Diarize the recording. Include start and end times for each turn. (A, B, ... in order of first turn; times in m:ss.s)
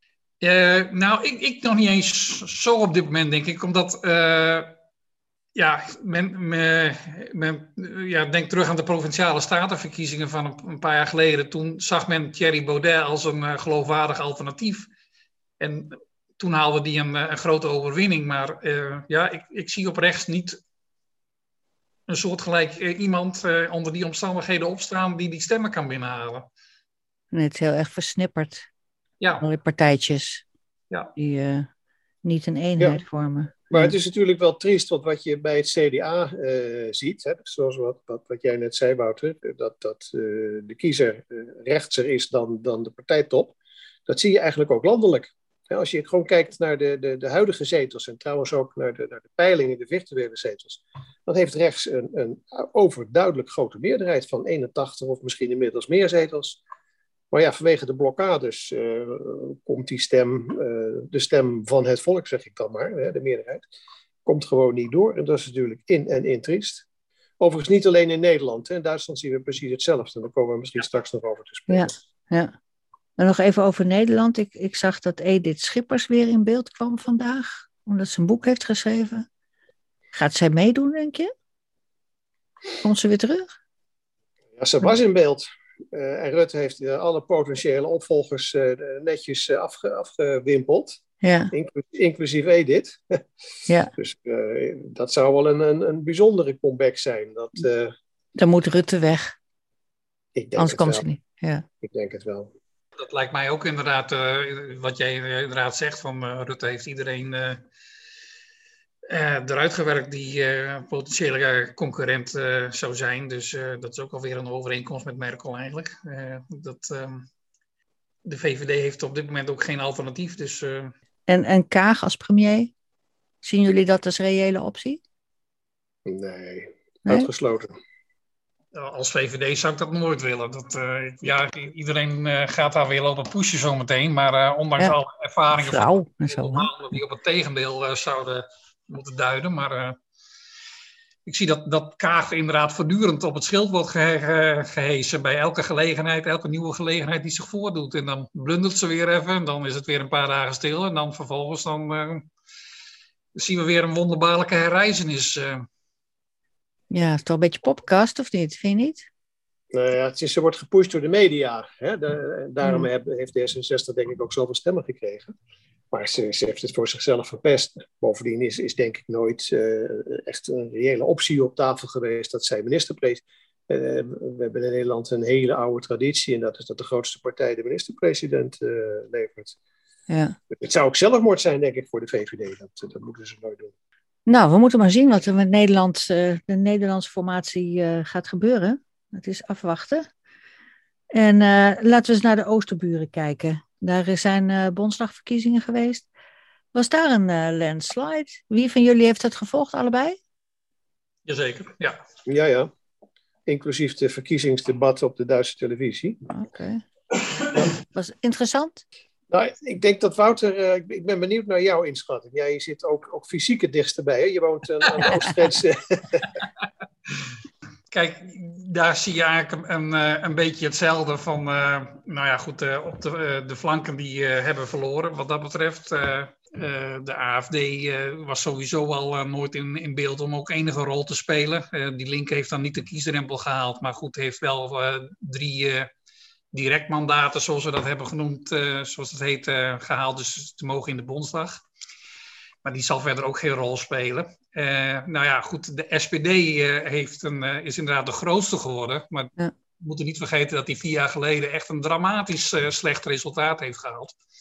0:00.4-0:04.7 A
0:05.6-0:14.9 A
0:15.6-0:20.6 A
0:22.1-0:26.5 A
0:27.3-0:28.7 B
0:29.4-0:30.4 B
0:31.2-0:31.7 B
0:32.2-0:33.9 B
0:33.7-0:43.6 C
0:44.1-0:56.6 C
0:57.3-1:03.7 C
1:04.2-1:06.8 C
1:07.4-1:11.9 C
1:11.7-1:12.5 B
1:13.2-1:19.3 B
1:20.1-1:21.3 B
1:22.8-1:23.5 B
1:24.6-1:31.0 C
1:31.2-1:31.5 B
1:31.5-1:33.2 C
1:33.7-1:33.9 B
1:34.0-1:37.9 C
1:38.4-1:39.4 B
1:40.4-1:41.0 C
1:40.6-1:41.6 B
1:41.8-1:42.5 C
1:43.0-1:47.6 A
1:49.1-1:57.3 A
1:58.2-2:00.9 A
2:01.3-2:02.7 B
2:03.4-2:05.0 B
2:06.1-2:07.7 C
2:08.7-2:20.0 A
2:15.5-2:16.7 B
2:21.3-2:32.3 A
2:33.4-2:35.7 A
2:36.9-2:39.1 B
2:39.7-2:45.4 C
2:45.9-2:59.6 C
3:00.1-3:00.4 B
3:00.5-3:03.7 C
3:04.3-3:10.1 B
3:11.1-3:16.1 B
3:16.7-3:20.2 B
3:21.3-3:22.0 A
3:22.3-3:22.7 C
3:23.5-3:26.2 C
3:26.3-3:26.8 B
3:27.8-3:28.8 B
3:29.3-3:36.4 C
3:37.9-3:55.9 A
3:56.5-4:01.6 A
4:02.6-4:14.2 A